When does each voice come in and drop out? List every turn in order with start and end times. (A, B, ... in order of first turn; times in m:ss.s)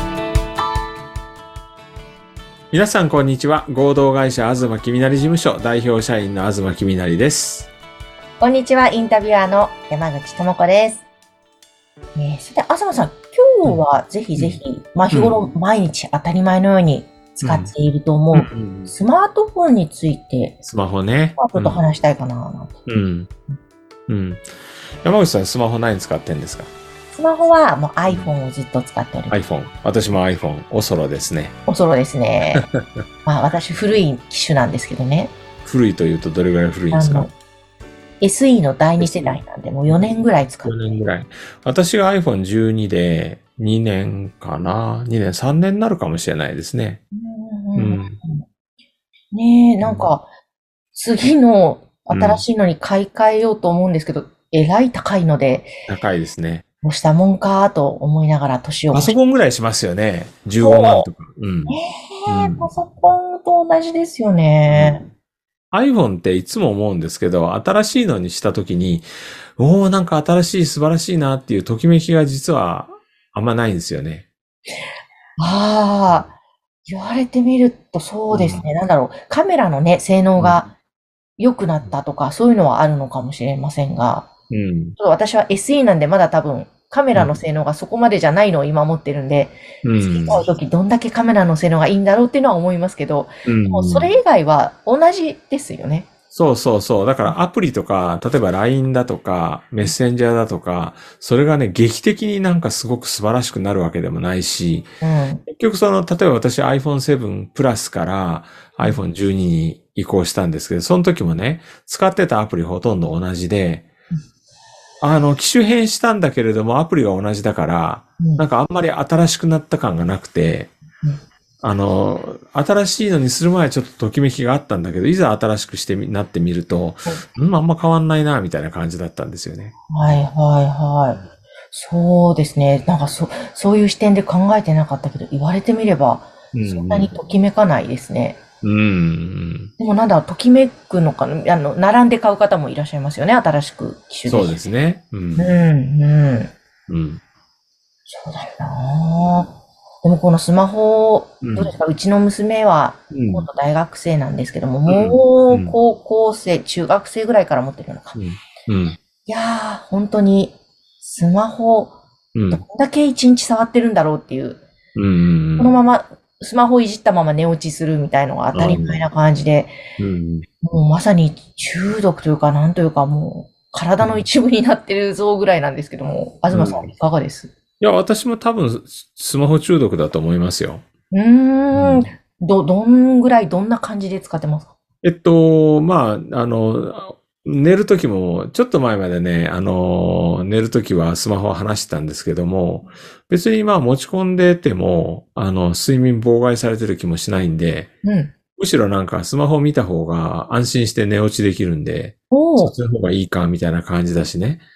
0:02.7-0:07.7 A
0:08.4-0:11.0 B
0:12.1-0:20.6 B
0:15.1-0:15.4 A
0:17.4-0:17.7 A
0:18.3-0:18.9 A
0:20.6-0:21.8 A
0:21.4-0:22.8 B
0:22.9-0:23.3 A
0:24.1-0:24.5 A
0:25.0-0:26.7 A
0:27.1-0:29.4 B
0:28.0-0:28.3 A
0:29.3-0:31.5 A
0:31.7-0:32.7 B
0:32.6-0:33.0 A
0:33.2-0:35.3 B
0:35.6-0:37.3 A
0:36.9-0:37.3 B
0:38.2-0:40.7 B
0:39.0-0:40.1 A
0:40.6-0:47.0 A
0:47.1-0:48.4 B
0:47.8-0:48.1 A
0:49.3-0:50.3 B
0:49.8-0:50.1 A
0:50.9-0:55.7 B
0:52.1-0:52.4 A
0:55.9-0:56.6 A
0:56.8-0:59.2 B
0:58.9-1:02.7 A
1:00.6-1:01.1 B
1:01.7-1:05.0 B
1:04.7-1:05.1 A
1:05.7-1:14.3 A
1:15.4-1:16.3 B
1:16.9-1:20.7 B
1:18.3-1:18.7 A
1:20.4-1:20.6 A
1:21.4-1:24.3 B
1:24.5-1:25.0 A
1:25.0-1:36.1 B
1:29.8-1:30.4 A
1:33.4-1:34.1 A
1:36.3-1:44.9 A
1:45.0-1:45.4 B
1:45.5-1:53.9 A
1:55.0-2:00.7 A
1:58.2-1:58.4 B
2:01.6-2:09.7 A
2:09.9-2:18.4 B
2:16.5-2:17.1 A
2:18.6-2:19.7 A
2:19.8-2:24.6 B
2:24.2-2:25.5 A
2:25.4-2:26.5 B
2:26.9-2:27.2 A
2:28.1-2:38.2 B
2:31.4-2:31.8 A
2:33.1-2:33.5 A
2:34.9-2:35.8 A
2:38.1-2:39.0 A
2:39.2-2:42.0 B
2:42.3-2:42.6 A
2:42.5-2:44.6 B
2:45.0-2:45.8 A
2:45.6-2:49.8 B
2:48.5-2:49.0 A
2:50.0-2:50.4 A
2:50.6-2:57.5 B
2:54.0-2:54.2 A
2:56.5-2:56.9 A
2:57.8-3:00.8 A
3:01.1-3:04.7 B
3:01.7-3:02.1 A
3:05.0-3:17.9 A
3:18.0-3:18.3 B
3:18.6-3:24.6 A
3:22.3-3:22.7 B